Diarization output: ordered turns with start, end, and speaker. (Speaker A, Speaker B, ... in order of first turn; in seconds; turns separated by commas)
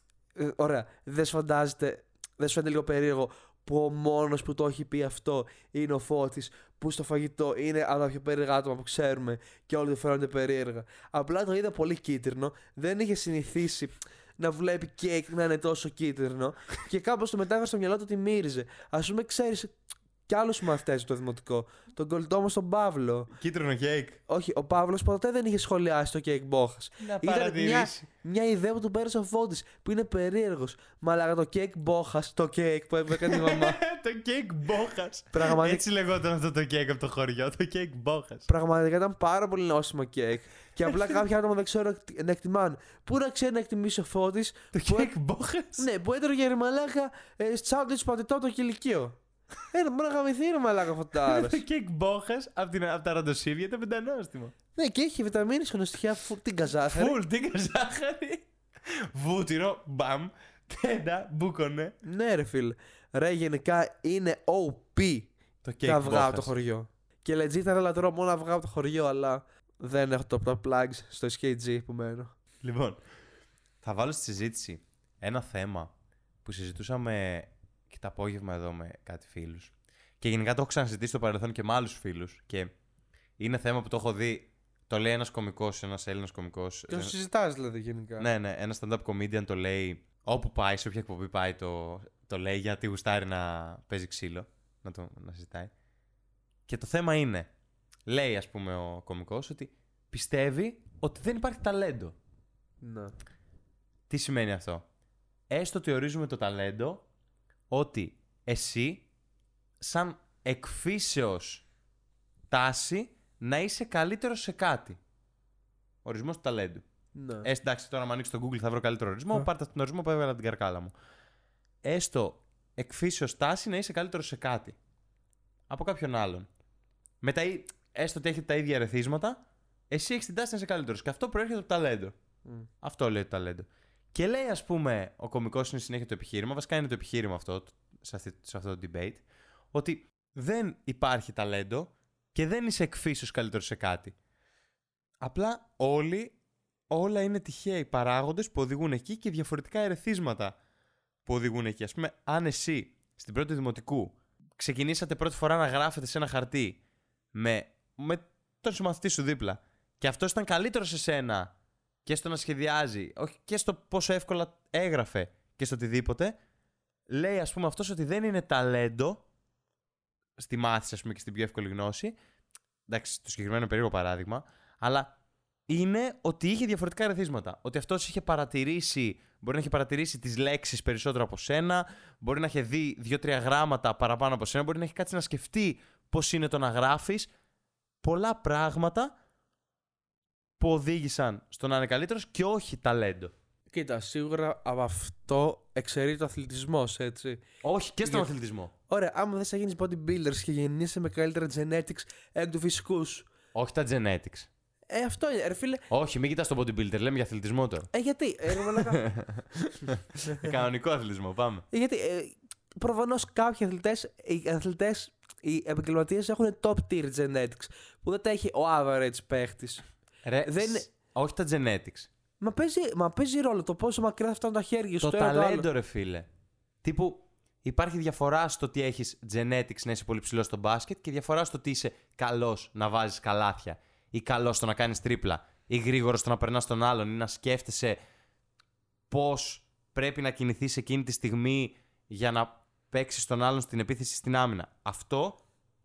Speaker A: 0.3-19.7, Speaker A: 20.3-23.3, Speaker B: 23.3-24.2, Speaker A: 24.3-33.8, Speaker B: 27.0-28.1, Speaker B: 33.2-38.5, Speaker A: 35.3-35.8, Speaker A: 38.5-45.1, Speaker B: 44.7-45.9, Speaker A: 45.8-49.1, Speaker A: 49.7-51.6, Speaker B: 51.2-54.5, Speaker A: 54.8-57.2, Speaker B: 56.9-62.0, Speaker A: 62.0-65.3, Speaker B: 65.6-66.5, Speaker A: 65.8-72.3, Speaker B: 72.6-73.0, Speaker B: 73.8-75.9, Speaker B: 76.4-82.7, Speaker B: 83.4-87.1, Speaker A: 86.9-88.3, Speaker B: 88.2-95.7, Speaker B: 96.7-97.5, Speaker B: 98.1-102.1, Speaker A: 102.8-103.1, Speaker B: 104.1-104.8, Speaker B: 105.5-107.0, Speaker B: 107.7-109.0, Speaker B: 109.8-111.6, Speaker B: 112.5-115.0, Speaker B: 116.0-116.8, Speaker A: 117.1-117.5, Speaker B: 117.4-120.9, Speaker B: 121.8-124.8, Speaker B: 125.7-126.5, Speaker B: 127.2-132.1, Speaker B: 132.8-144.1, Speaker B: 145.2-146.3, Speaker B: 146.9-150.6, Speaker B: 151.2-156.8, Speaker B: 157.3-161.5, Speaker B: 162.0-166.3, Speaker B: 167.1-169.2, Speaker B: 170.4-172.2, Speaker B: 172.9-175.1, Speaker B: 175.7-187.3, Speaker B: 188.0-189.1, Speaker B: 190.6-193.3, Speaker A: 193.7-197.4, Speaker B: 197.6-198.7, Speaker A: 198.0-198.3, Speaker A: 198.9-203.3, Speaker B: 203.5-204.5, Speaker A: 204.9-205.8, Speaker B: 205.9-207.9, Speaker A: 207.9-209.1, Speaker B: 208.5-211.7, Speaker A: 211.7-219.8, Speaker B: 220.2-222.1, Speaker A: 220.4-220.8, Speaker A: 222.4-225.7, Speaker B: 225.0-226.3, Speaker B: 226.8-238.0, Speaker B: 239.1-245.4